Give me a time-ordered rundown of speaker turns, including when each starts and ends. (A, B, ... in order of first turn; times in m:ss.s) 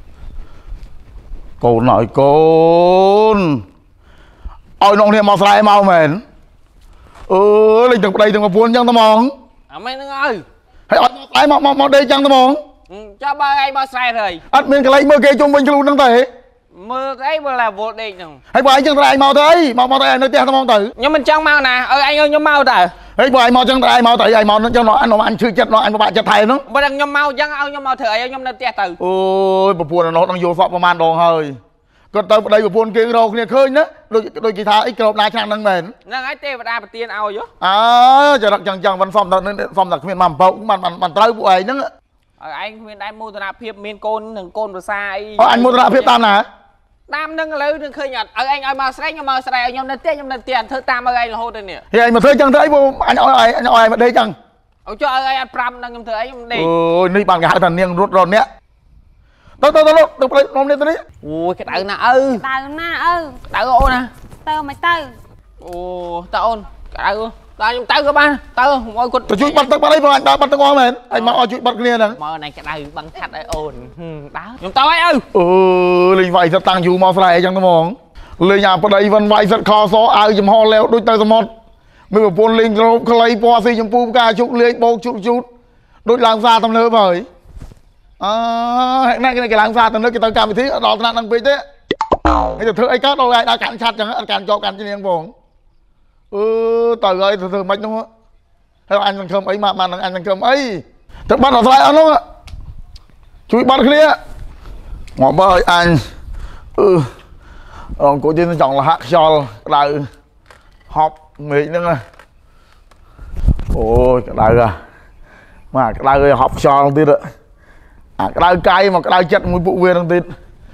0:01.6-0:03.6 A
0:04.8-0:06.2 A
0:07.3-0:09.3 A
0:09.7-0:10.4 B
0:10.9-0:12.6 A
0:12.9-0:14.4 B
0:14.5-0:16.3 A
0:16.7-0:18.4 B
0:18.5-0:20.9 A
0:21.0-0:22.9 B
0:23.2-0:26.6 A
0:26.7-0:29.0 B
0:29.0-0:31.6 A
0:32.1-0:35.9 A
0:36.0-0:37.5 B
0:37.6-0:41.9 A
0:42.4-0:46.2 B
0:45.4-0:46.4 A
0:47.1-0:51.8 B
0:51.9-0:54.3 A
0:54.8-0:56.7 B
0:56.5-0:58.5 A
0:59.6-1:01.0 A
1:01.2-1:02.4 B
1:01.7-1:03.4 C
1:03.5-1:04.1 B
1:04.4-1:05.2 C
1:05.6-1:09.7 B
1:09.3-1:12.2 A
1:11.1-1:11.4 B
1:12.1-1:15.2 B
1:15.3-1:21.5 A
1:22.1-1:25.4 A
1:26.0-1:27.3 A
1:28.2-1:31.6 A
1:32.6-1:35.3 A
1:36.3-1:38.1 A
1:38.9-1:42.2 A
1:43.5-1:44.2 A
1:45.2-1:46.0 A
1:46.8-1:47.1 A
1:48.0-1:50.1 A
1:50.9-1:52.0 A
1:53.7-1:54.8 A
1:55.7-1:57.2 A
1:58.2-2:00.3 A